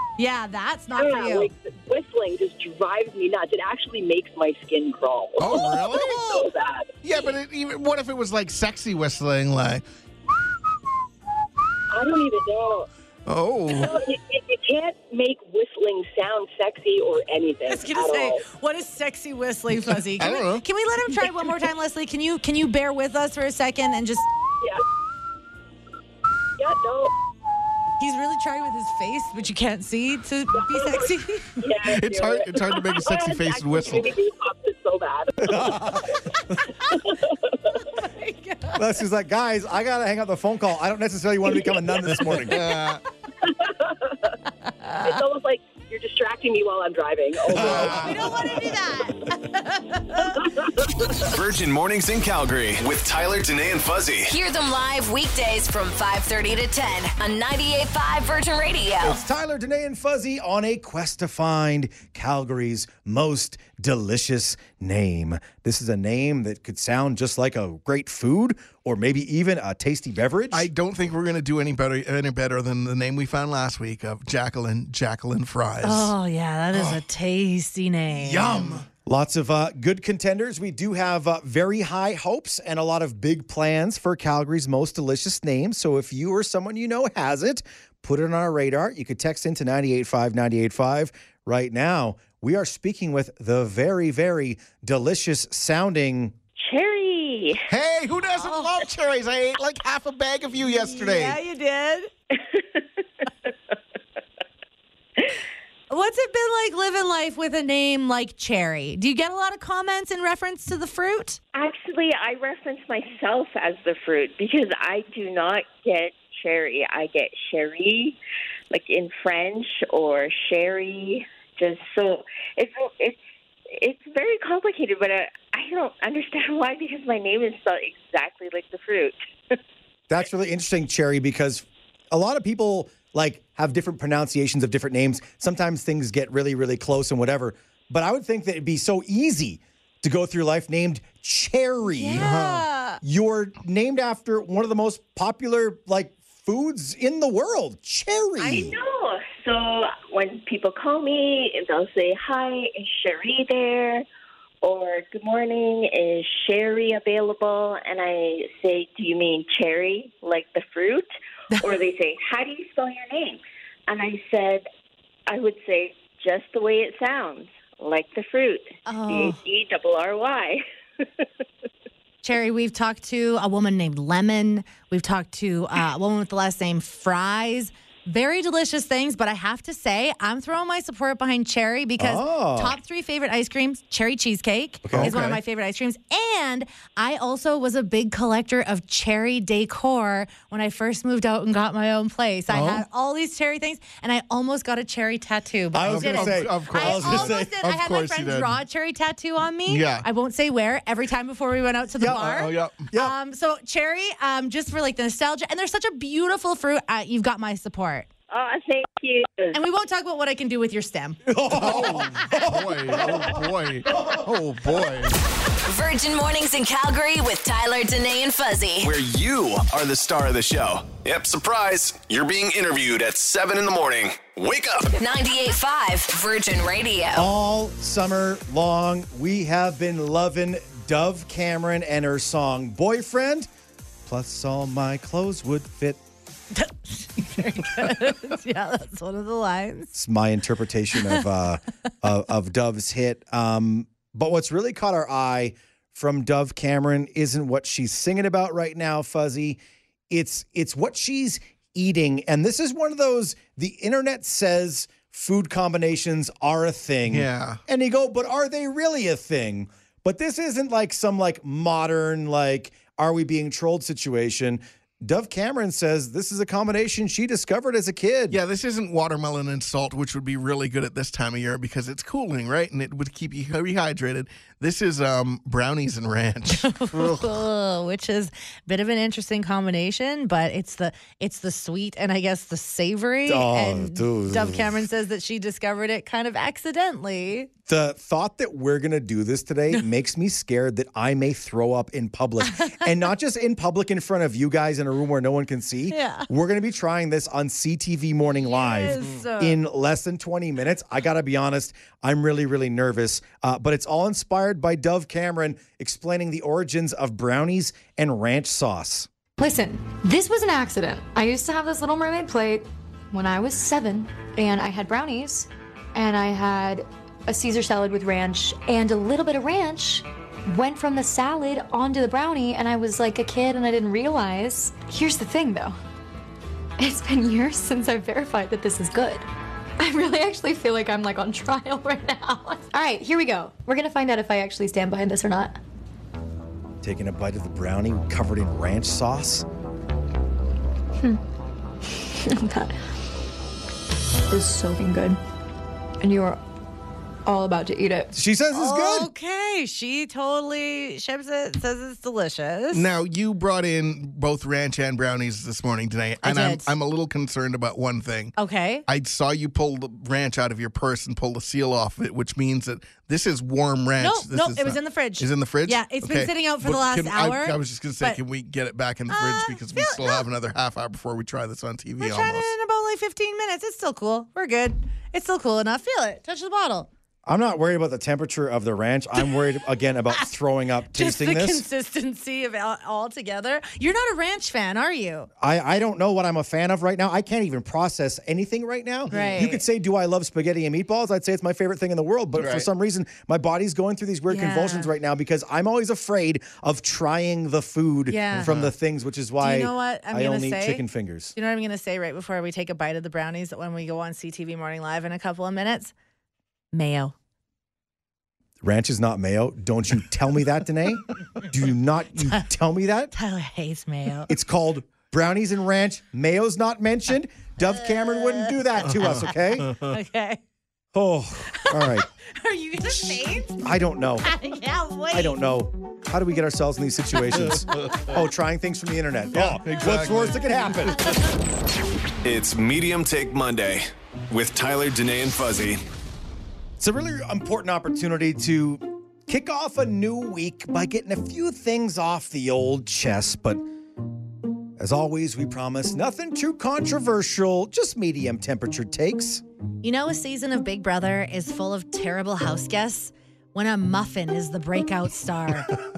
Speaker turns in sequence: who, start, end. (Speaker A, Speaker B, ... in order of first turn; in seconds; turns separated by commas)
Speaker A: 0.2-1.5, Speaker B: 0.9-7.0, Speaker C: 5.4-6.2, Speaker A: 5.5-6.5, Speaker C: 7.0-9.8, Speaker B: 11.9-12.9, Speaker C: 13.3-13.9, Speaker B: 13.8-18.4, Speaker A: 17.7-24.3, Speaker C: 19.9-20.6, Speaker B: 26.6-27.1, Speaker A: 28.0-31.7, Speaker B: 30.6-35.8, Speaker C: 31.8-34.1, Speaker D: 35.4-36.6, Speaker A: 36.3-37.1, Speaker B: 37.0-37.8, Speaker A: 37.9-39.0, Speaker D: 38.8-42.8, Speaker C: 42.2-43.0, Speaker B: 43.4-44.3, Speaker A: 44.6-45.2, Speaker B: 45.0-48.4, Speaker C: 47.5-48.5, Speaker A: 47.6-50.5, Speaker E: 51.2-54.3, Speaker F: 54.3-59.2, Speaker D: 59.0-70.7, Speaker C: 70.5-76.1, Speaker A: 75.8-78.8, Speaker C: 76.7-77.0, Speaker C: 78.1-78.9, Speaker D: 79.0-96.3, Speaker G: 96.6-97.7, Speaker C: 97.7-101.4, Speaker A: 98.4-98.7, Speaker A: 100.9-102.1, Speaker A: 105.9-111.4, Speaker G: 111.5-118.2, Speaker G: 118.7-123.2, Speaker G: 123.8-129.6, Speaker D: 130.1-142.3, Speaker A: 141.9-143.0, Speaker C: 142.2-142.7, Speaker D: 143.0-148.8, Speaker G: 148.4-154.1, Speaker G: 154.6-161.1, Speaker G: 161.6-164.7, Speaker G: 165.3-170.6, Speaker A: 168.9-169.4, Speaker A: 172.2-208.1, Speaker D: 182.0-182.8, Speaker D: 184.8-185.4, Speaker C: 184.9-185.2, Speaker C: 192.5-192.8, Speaker D: 195.7-197.5, Speaker C: 195.8-198.6, Speaker C: 199.7-200.1, Speaker D: 202.0-203.1, Speaker C: 202.1-202.9, Speaker G: 208.3-209.6, Speaker A: 209.5-211.2, Speaker D: 211.3-213.4, Speaker C: 211.5-215.2, Speaker F: 215.7-218.9, Speaker E: 218.8-225.0, Speaker F: 225.0-227.3, Speaker D: 227.2-233.5, Speaker D: 234.1-236.0, Speaker A: 236.5-239.9, Speaker D: 239.9-268.4, Speaker C: 257.1-257.6, Speaker C: 268.3-277.3, Speaker A: 276.5-287.5, Speaker D: 283.2-284.8, Speaker D: 287.7-309.1, Speaker A: 292.5-293.1, Speaker A: 295.9-296.3, Speaker A: 298.4-299.6, Speaker H: 309.4-325.8, Speaker H: 326.8-329.3, Speaker H: 329.8-335.6, Speaker D: 336.8-339.4, Speaker H: 341.9-342.9, Speaker H: 344.3-345.2, Speaker H: 346.0-346.4, Speaker H: 347.3-348.1, Speaker D: 348.1-349.1, Speaker A: 348.5-352.9, Speaker C: 352.7-358.4, Speaker A: 356.2-356.7, Speaker A: 358.4-358.9, Speaker C: 358.9-372.5, Speaker A: 364.0-368.2, Speaker A: 369.1-370.3, Speaker A: 372.0-376.9, Speaker D: 377.3-381.7, Speaker A: 379.2-379.4, Speaker A: 380.9-385.3, Speaker D: 385.4-401.4, Speaker A: 389.1-389.6, Speaker C: 389.1-389.4, Speaker C: 392.4-392.7, Speaker A: 394.3-394.9, Speaker A: 398.1-398.5, Speaker C: 398.3-398.7, Speaker A: 399.4-400.8, Speaker A: 401.4-405.9, Speaker A: 406.7-407.1, Speaker D: 408.6-413.1, Speaker A: 413.1-414.3, Speaker D: 414.3-419.7, Speaker A: 417.6-418.5, Speaker C: 418.9-420.0, Speaker A: 419.8-420.4, Speaker D: 420.9-422.1, Speaker A: 421.6-423.6, Speaker D: 423.6-424.3, Speaker A: 424.2-425.4, Speaker D: 425.1-431.1, Speaker C: 427.4-428.1, Speaker C: 429.3-431.2, Speaker E: 432.2-435.8, Speaker D: 436.8-443.7, Speaker D: 444.8-449.4, Speaker A: 449.8-455.8